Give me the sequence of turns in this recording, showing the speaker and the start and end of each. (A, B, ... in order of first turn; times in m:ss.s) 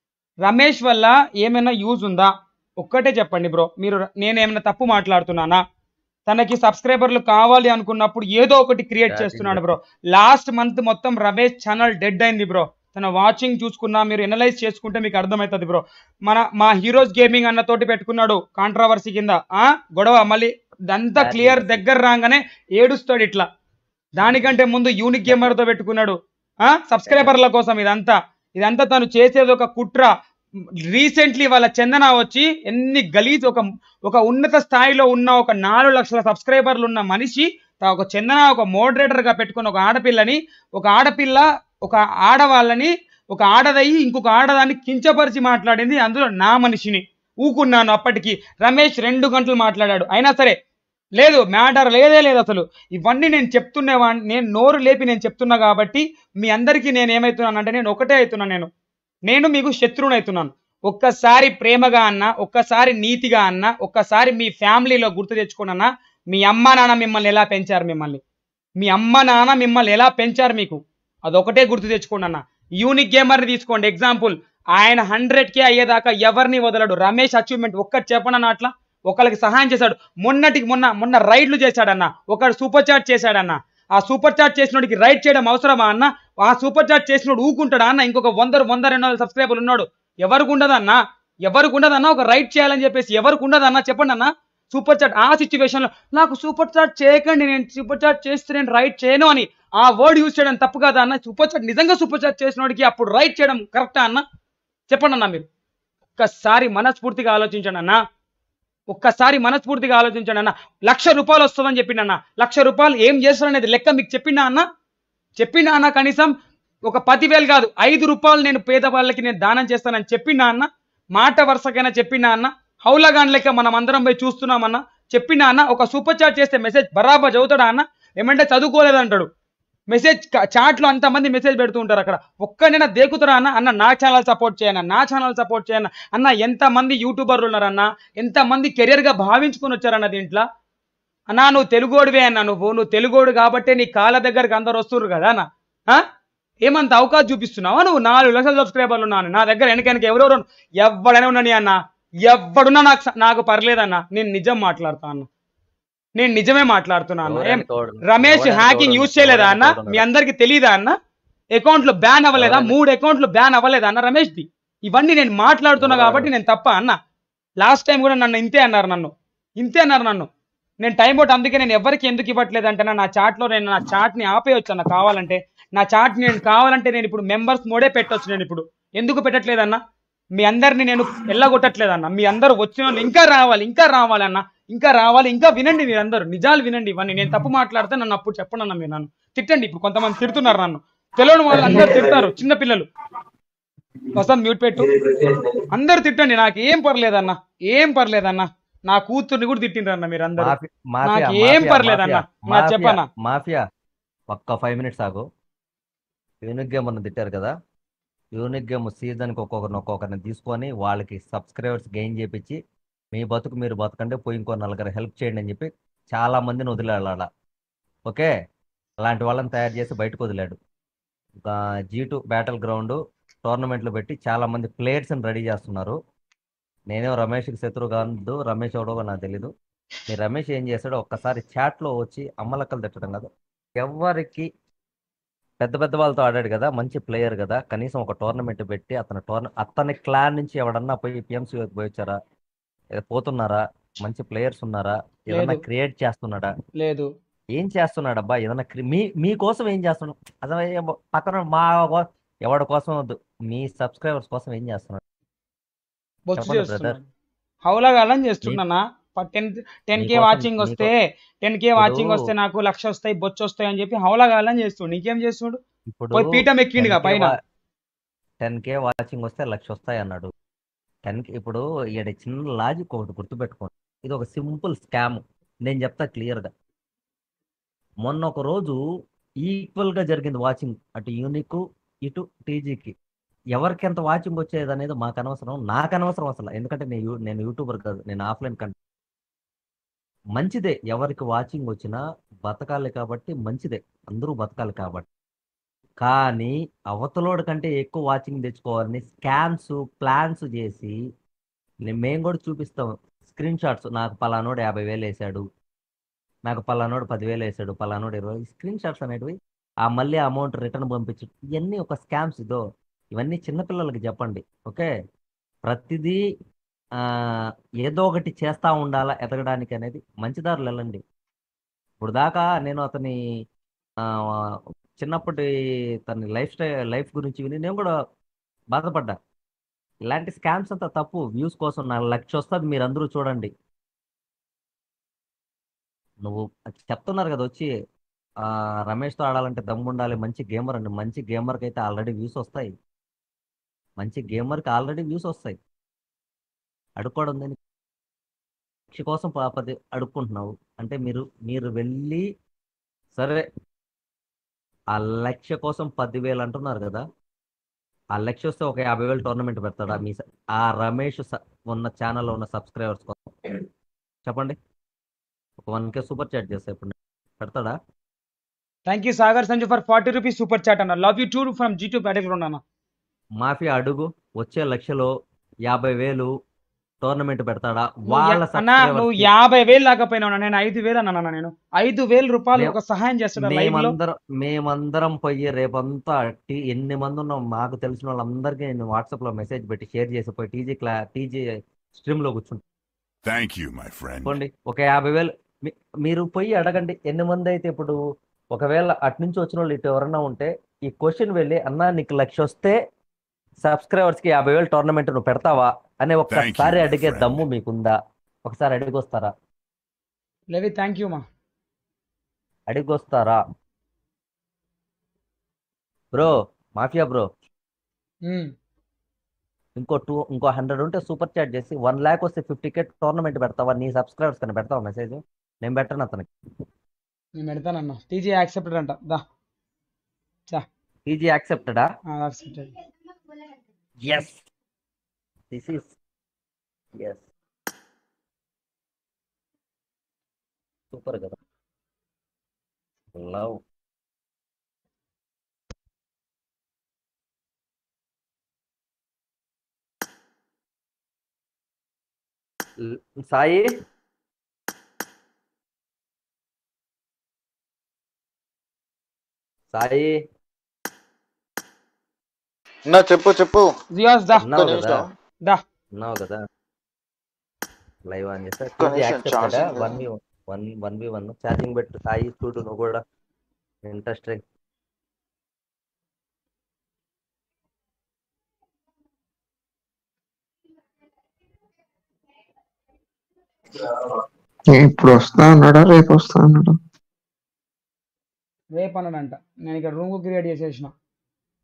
0:00.4-0:05.6 A
0:06.3-0:23.4 A
0:09.1-0:09.6 B
0:21.2-0:21.8 B
0:24.2-0:30.1 A
0:25.3-0:25.5 B
0:27.1-0:27.4 B
0:30.9-0:50.6 A
0:51.2-0:58.7 A
0:59.3-1:08.2 A
1:08.8-1:44.2 A
1:44.9-1:45.5 A
1:46.2-1:48.0 A
1:48.9-1:54.6 A
1:55.4-1:56.3 A
1:56.9-2:09.3 A
2:09.9-2:20.4 A
2:21.3-2:26.0 A
2:26.6-2:35.3 A
2:36.2-2:41.0 A
2:37.3-2:40.0 B
2:41.6-2:47.0 A
2:42.4-2:42.7 B
2:45.8-2:46.3 B
2:47.6-2:50.3 A
2:50.8-2:59.8 A
3:00.4-3:12.9 A
3:14.2-3:14.9 A
3:15.7-3:23.0 A
3:20.4-3:23.6 B
3:24.3-3:25.3 B
3:26.4-3:27.5 B
3:28.3-3:32.6 B
3:33.1-3:37.3 B
3:39.0-3:40.6 B
3:41.4-3:46.0 B
3:46.9-3:49.5 B
3:50.1-3:53.3 B
3:53.8-3:54.5 B
3:55.6-4:02.2 B
4:03.0-4:06.5 B
4:05.3-4:05.6 A
4:06.8-4:07.1 A
4:07.5-4:15.0 B
4:16.3-4:17.1 A
4:16.4-4:17.0 B
4:17.6-4:25.6 A
4:20.0-4:20.9 B
4:21.8-4:22.2 B
4:25.9-4:27.3 B
4:26.1-4:27.3 A
4:28.4-4:30.3 B
4:31.0-4:36.5 B
4:38.0-4:38.8 B
4:39.4-4:42.9 B
4:43.5-4:48.7 B
4:50.4-4:55.1 B
4:56.0-5:01.0 B
5:01.9-5:05.4 B
5:06.5-5:12.6 B
5:13.1-5:14.9 B
5:15.6-5:16.2 B
5:17.0-5:17.3 B
5:17.8-5:21.0 B
5:22.0-5:23.2 B
5:24.0-5:25.5 B
5:26.0-5:27.9 B
5:28.7-5:29.2 B
5:30.1-5:33.5 B
5:36.2-5:37.7 B
5:38.4-5:42.7 B
5:44.0-5:45.6 B
5:47.0-5:47.6 B
5:48.9-5:52.2 B
5:53.2-5:53.4 B
5:54.9-5:57.0 B
5:58.2-6:03.6 B
6:04.2-6:04.6 B
6:05.6-6:07.8 B
6:08.9-6:12.6 A
6:13.4-6:15.1 B
6:15.7-6:16.3 B
6:17.0-6:19.3 B
6:18.1-6:23.9 A
6:23.4-6:32.6 B
6:33.2-6:34.4 C
6:34.2-6:38.0 B
6:38.5-6:42.8 B
6:43.6-6:49.3 B
6:46.3-6:47.4 C
6:50.5-6:51.2 A
6:52.7-6:53.4 B
6:56.1-6:57.3 B
6:58.3-6:58.5 A
6:59.8-7:06.3 B
7:07.4-7:09.2 A
7:11.1-7:11.9 B
7:12.1-7:12.7 A
7:14.0-7:14.4 B
7:15.5-7:16.0 B
7:17.0-7:17.2 B
7:20.9-7:21.4 B
7:23.2-7:23.6 B
7:32.8-7:33.8 B
7:39.7-7:40.2 B
7:42.9-7:43.7 D
7:43.9-7:44.5 A
7:44.4-7:45.0 B
7:44.6-7:45.1 D
7:46.0-7:46.4 B
7:48.1-7:53.0 B
7:48.8-7:50.0 D
7:53.8-7:54.4 B
8:04.7-8:06.8 E
8:08.8-8:10.9 A